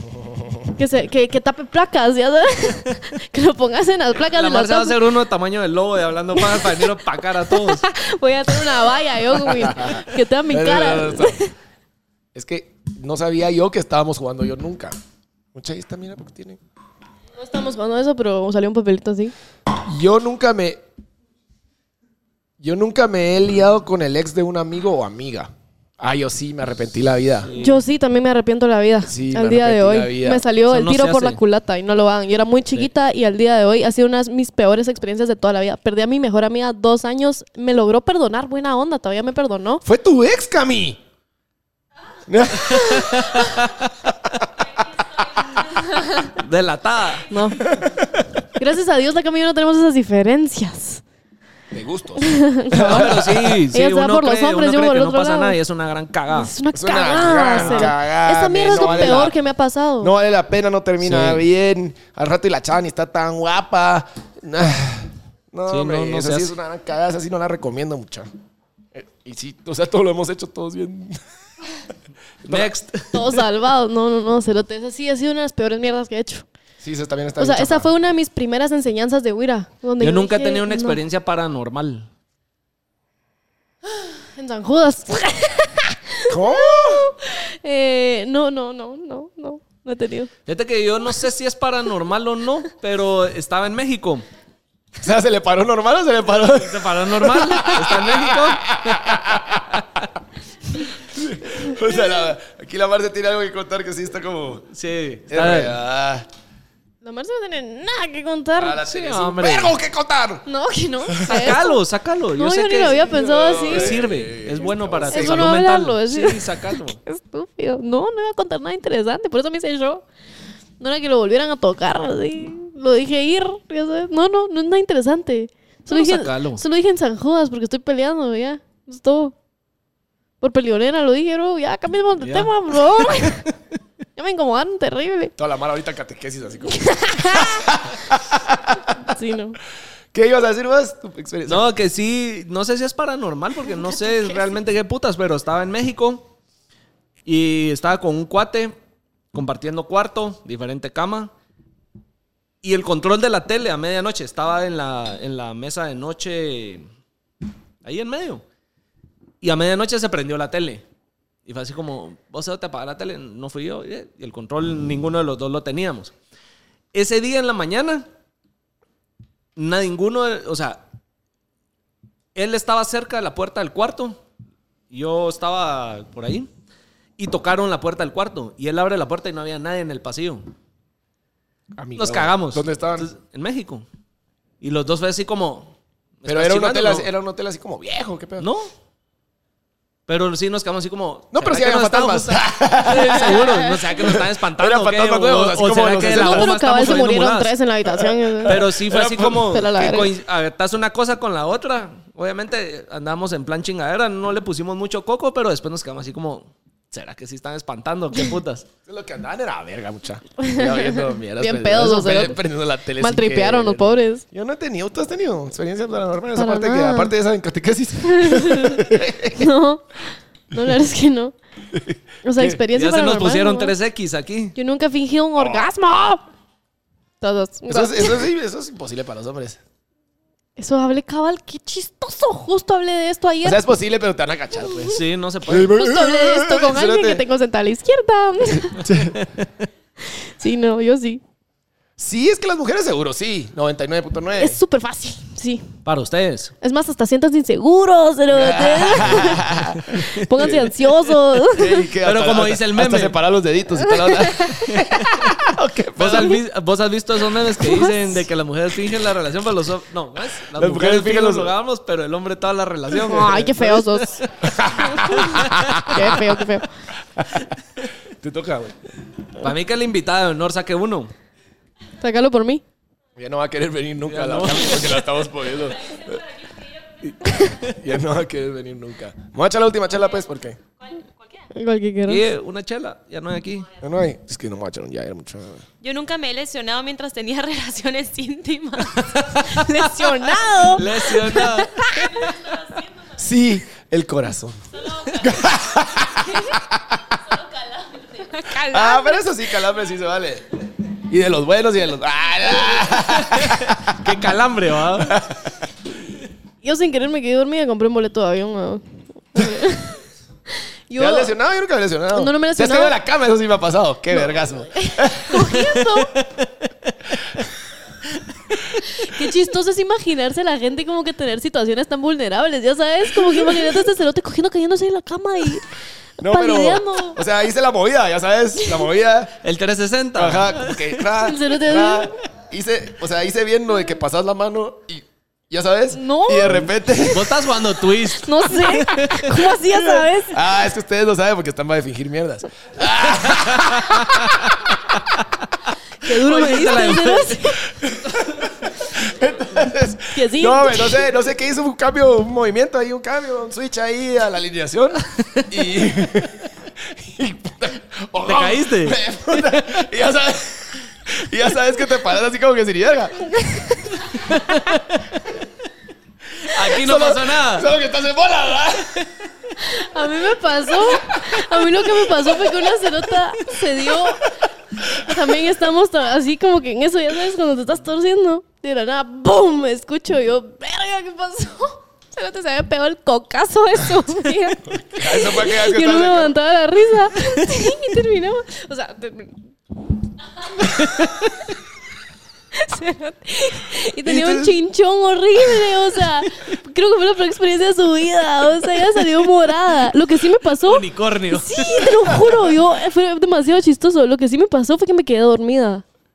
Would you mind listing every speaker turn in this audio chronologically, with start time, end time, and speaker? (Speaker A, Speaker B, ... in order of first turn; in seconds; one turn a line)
Speaker A: 0.2-0.6
Speaker B: 0.7-5.0
Speaker C: 4.2-7.8
Speaker B: 6.3-11.5
Speaker A: 9.6-11.4
Speaker A: 12.3-14.9
Speaker A: 15.5-16.6
Speaker B: 17.4-19.3
Speaker A: 19.7-20.8
Speaker A: 22.6-27.5
Speaker C: 27.4-27.8
Speaker B: 27.6-39.8
Speaker A: 29.0-30.4
Speaker C: 30.7-31.4
Speaker A: 39.8-41.0
Speaker A: 42.3-43.6
Speaker C: 42.6-43.9
Speaker D: 44.8-45.8
Speaker C: 46.3-47.3
Speaker B: 47.3-47.6
Speaker A: 47.6-48.2
Speaker B: 48.5-51.0
Speaker A: 51.7-53.6
Speaker B: 52.2-55.5
Speaker C: 52.7-56.5
Speaker B: 56.3-60.1
Speaker A: 56.7-59.3
Speaker C: 57.5-57.9
Speaker C: 58.7-59.3
Speaker A: 60.0-68.3
Speaker C: 61.0-61.4
Speaker C: 65.7-66.5
Speaker A: 68.9-71.2
Speaker A: 72.4-72.7
Speaker C: 72.5-73.4
Speaker B: 73.1-76.5
Speaker A: 76.8-77.9
Speaker B: 77.4-81.0
Speaker C: 80.0-82.1
Speaker B: 84.0-90.3
Speaker A: 86.3-87.1
Speaker C: 90.5-94.2
Speaker A: 95.0-99.7
Speaker C: 96.5-100.0
Speaker A: 101.1-104.7
Speaker C: 104.7-105.8
Speaker A: 105.3-106.3
Speaker B: 107.0-108.8
Speaker A: 108.5-110.5
Speaker C: 108.8-109.8
Speaker B: 110.5-111.8
Speaker A: 111.0-111.4
Speaker C: 111.2-117.0
Speaker B: 112.4-114.0
Speaker A: 113.0-115.5
Speaker B: 115.1-120.0
Speaker B: 120.8-129.3
Speaker C: 125.9-126.6
Speaker B: 130.4-133.4
Speaker C: 132.2-132.5
Speaker B: 134.2-135.3
Speaker A: 135.4-138.8
Speaker B: 136.7-137.7
Speaker B: 139.1-139.6
Speaker A: 140.1-141.7
Speaker C: 141.5-146.3
Speaker C: 147.2-148.7
Speaker C: 149.3-151.3
Speaker C: 152.6-156.8
Speaker C: 157.8-158.4
Speaker C: 159.4-160.8
Speaker C: 161.4-166.1
Speaker C: 166.9-168.1
Speaker C: 169.6-170.8
Speaker C: 172.3-174.2
Speaker C: 174.9-176.5
Speaker C: 177.2-180.5
Speaker A: 181.8-183.1
Speaker C: 181.9-183.8
Speaker C: 184.6-187.1
Speaker A: 186.2-188.5
Speaker C: 188.4-188.7
Speaker C: 190.1-197.5
Speaker A: 191.3-196.5
Speaker B: 193.0-193.9
Speaker B: 196.1-198.6
Speaker A: 197.8-199.6
Speaker C: 198.5-208.7
Speaker B: 199.4-200.1
Speaker A: 208.8-219.5
Speaker B: 210.4-212.4
Speaker B: 213.0-214.2
Speaker B: 216.3-217.1
Speaker B: 218.0-221.3
Speaker A: 221.7-222.6
Speaker B: 222.2-223.7
Speaker C: 222.7-224.5
Speaker B: 224.6-226.2
Speaker A: 225.4-225.7
Speaker B: 227.2-228.2
Speaker A: 227.7-229.6
Speaker B: 230.6-233.6
Speaker A: 233.4-237.2
Speaker C: 234.8-235.7
Speaker B: 235.7-238.9
Speaker A: 238.7-239.2
Speaker C: 238.8-239.5
Speaker B: 240.1-241.2
Speaker A: 242.0-244.6
Speaker B: 244.4-245.8
Speaker C: 245.8-246.5
Speaker B: 246.6-249.5
Speaker A: 248.3-250.7
Speaker C: 250.0-250.6
Speaker B: 250.1-251.8
Speaker A: 251.5-256.4
Speaker C: 252.0-253.2
Speaker B: 254.0-254.7
Speaker C: 254.5-255.3
Speaker C: 255.9-266.3
Speaker B: 257.6-258.2
Speaker A: 260.5-261.5
Speaker B: 262.9-264.2
Speaker A: 264.4-266.2
Speaker B: 264.8-266.7
Speaker A: 268.1-268.7
Speaker C: 269.4-271.1
Speaker B: 272.0-272.6
Speaker A: 273.2-276.2
Speaker C: 274.1-275.1
Speaker D: 275.3-277.9
Speaker A: 277.6-280.6
Speaker D: 279.9-281.5
Speaker B: 281.5-282.3
Speaker C: 282.1-283.7
Speaker A: 283.8-285.6
Speaker B: 285.8-292.4
Speaker D: 285.8-286.1
Speaker D: 286.8-287.7
Speaker C: 288.9-291.9
Speaker D: 291.8-293.3
Speaker A: 293.2-297.0
Speaker D: 294.7-298.6
Speaker B: 298.3-299.3
Speaker A: 298.7-304.0
Speaker D: 302.4-302.9
Speaker C: 303.0-305.2
Speaker A: 305.0-305.5
Speaker B: 306.6-310.0
Speaker B: 310.5-311.3
Speaker A: 311.0-315.6
Speaker B: 312.1-312.9
Speaker B: 314.7-316.1
Speaker C: 315.6-317.2
Speaker B: 318.8-325.6
Speaker A: 326.2-329.3
Speaker B: 326.3-327.2
Speaker B: 328.6-328.9
Speaker C: 329.4-330.9
Speaker A: 330.1-337.3
Speaker B: 331.1-332.1
Speaker B: 335.9-336.6
Speaker C: 336.4-339.4
Speaker B: 338.2-340.4
Speaker A: 339.8-344.8
Speaker C: 343.2-344.4
Speaker C: 345.0-345.3
Speaker B: 346.0-347.7
Speaker C: 346.1-347.4
Speaker A: 347.6-363.8
Speaker B: 350.1-351.1
Speaker C: 355.1-355.5
Speaker C: 358.2-359.8
Speaker C: 364.3-365.1
Speaker C: 366.4-367.7
Speaker A: 366.5-369.1
Speaker B: 369.6-374.2
Speaker B: 374.9-389.4
Speaker A: 384.7-386.4
Speaker B: 392.5-405.8
Speaker A: 394.0-394.5
Speaker C: 400.5-402.1